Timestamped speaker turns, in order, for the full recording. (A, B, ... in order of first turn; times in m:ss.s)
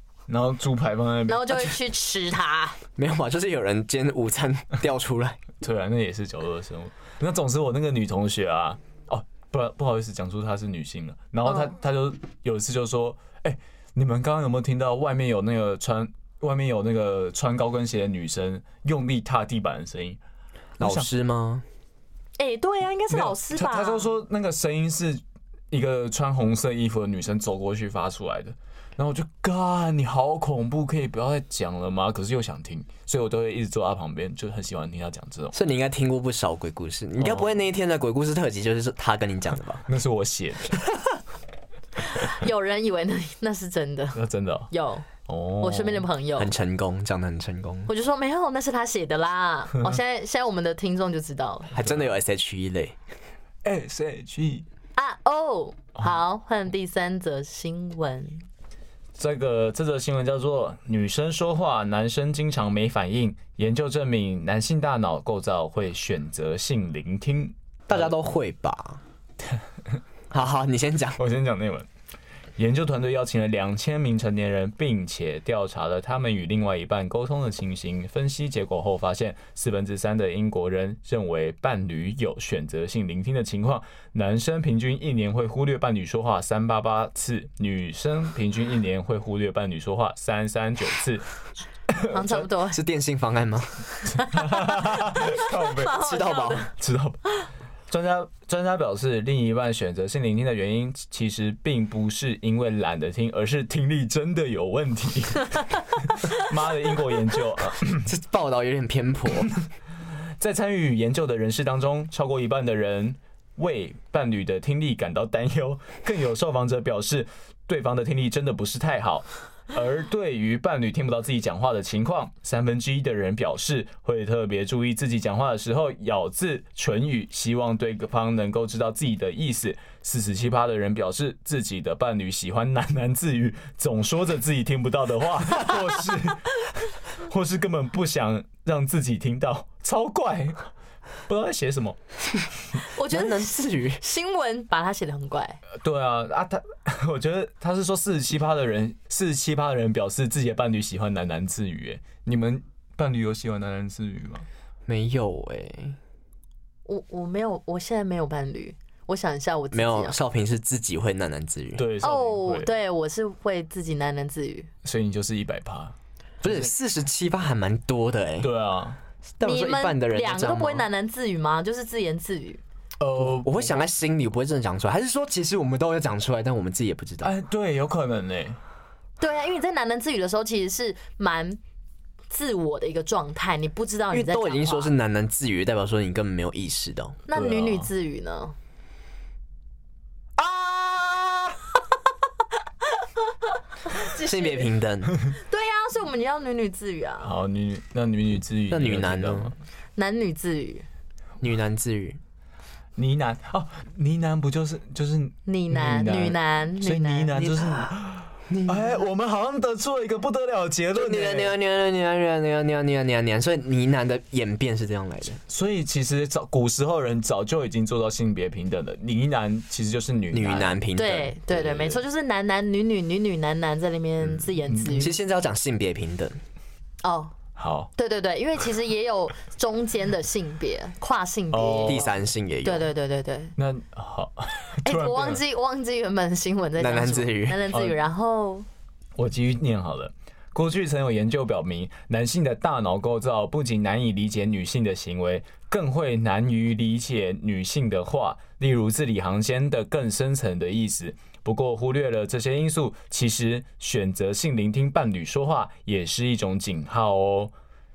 0:00.3-0:01.7 A
0:01.3-0:02.8 B
0:03.0-0:05.4 C
0:05.6-0:20.2 A
0:11.5-0:11.7 B
0:20.8-0:21.1 A
0:20.8-0:21.6 C
0:22.4-0:24.1 B
0:23.1-0:35.6 A
0:35.5-0:39.8 C
0:37.2-0:37.5 A
0:39.9-0:40.9 A
0:42.1-0:44.2 B
0:44.2-0:44.7 A
0:44.7-0:45.1 B
0:45.3-0:46.1 A
0:45.6-0:46.5 B
0:46.4-0:47.9 C
0:47.9-0:51.8 B
0:51.7-0:53.0 C
0:51.8-0:52.2 A
0:53.6-0:54.7 A
0:55.0-0:58.4 B
0:59.2-1:08.1 A
1:07.9-1:09.0 C
1:10.3-1:11.2 C
1:11.2-1:11.9 A
1:12.6-1:31.3 A
1:31.9-1:32.4 A
1:32.1-1:32.8 B
1:32.7-1:33.8 C
1:34.1-1:36.7 B
1:34.1-1:36.0 A
1:36.0-1:36.7 C
1:36.7-1:37.3 A
1:37.9-1:48.1 A
1:48.0-1:49.5 C
1:50.4-2:20.7 A
2:21.3-2:22.0 A
2:22.9-2:25.6 B
2:23.1-2:24.0 C
2:25.7-2:34.5 A
2:34.9-2:36.0 C
2:36.9-2:40.2 B
2:39.7-2:41.8 C
2:41.8-2:42.7 A
2:42.0-2:44.7 B
2:44.8-2:46.7 A
2:46.4-2:48.5 C
2:48.4-2:49.0 A
2:49.4-2:50.9 C
2:49.4-2:52.6 B
2:53.0-2:53.8 A
2:53.2-2:57.3 C
2:57.2-2:58.6 A
2:59.2-3:01.6 B
3:02.3-3:04.9 B
3:04.1-3:07.2 C
3:07.3-3:08.6 B
3:07.3-3:07.9 A
3:10.4-3:11.6 B
3:13.9-3:14.7 B
3:14.2-3:15.1 C
3:15.3-3:17.4 B
3:17.2-3:19.6 A
3:18.7-3:19.5 C
3:20.0-3:20.9 B
3:21.4-3:22.2 C
3:23.0-3:31.6 A
3:25.5-3:27.4 B
3:27.3-3:27.9 C
3:28.5-3:29.1 C
3:30.9-3:35.4 C
3:35.5-3:40.8 A
3:40.3-3:42.0 C
3:41.0-3:45.2 B
3:44.3-3:45.1 A
3:44.9-3:46.4 C
3:47.0-3:47.3 B
3:47.6-3:47.9 A
3:48.0-3:52.1 B
3:51.5-3:52.1 A
3:51.9-3:52.9 C
3:52.6-3:53.5 B
3:53.6-3:55.4 A
3:54.8-3:58.7 B
3:56.8-3:57.7 C
3:57.7-3:58.0 A
3:59.2-4:17.5 A